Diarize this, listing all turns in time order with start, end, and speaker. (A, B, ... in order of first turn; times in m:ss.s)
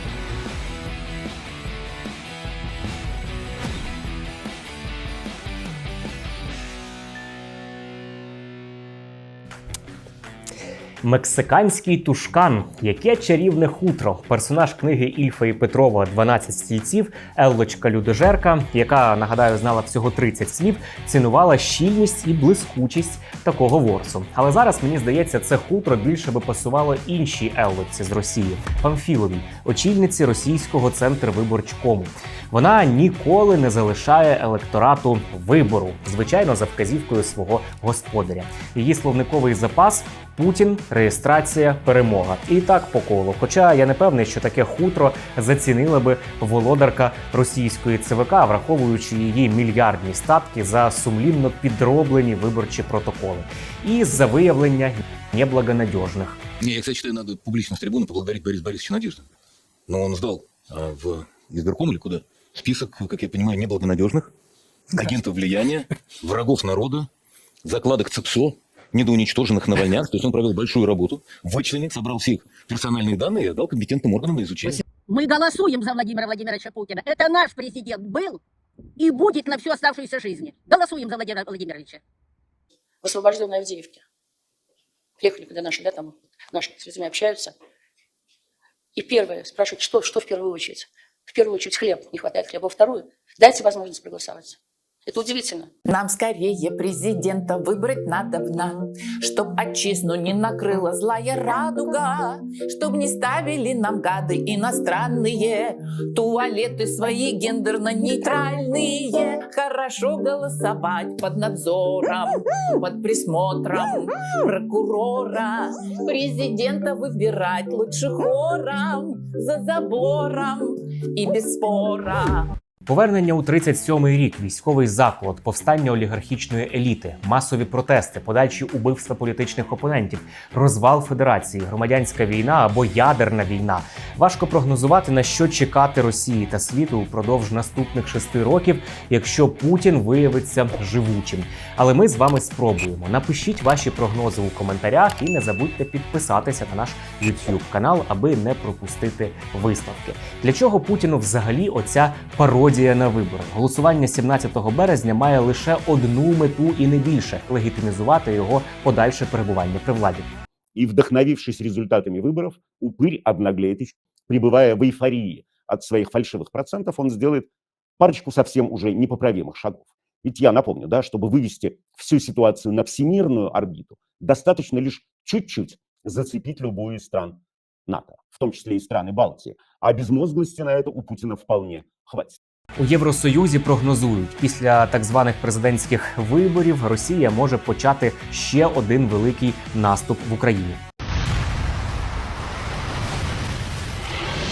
0:11.0-0:56.4 A
0:56.6-0:59.3 B
0:59.9-1:04.3 B
1:05.0-1:07.1 B
1:07.6-1:14.8 B
1:15.0-1:18.4 C
1:19.0-1:22.0 C
1:23.0-1:24.0 D
1:25.2-1:27.6 D
1:29.0-1:35.7 D
1:35.9-2:02.5 E
2:02.9-2:40.3 A
2:40.8-2:47.5 F
2:48.0-3:02.4 F
3:02.8-3:10.8 A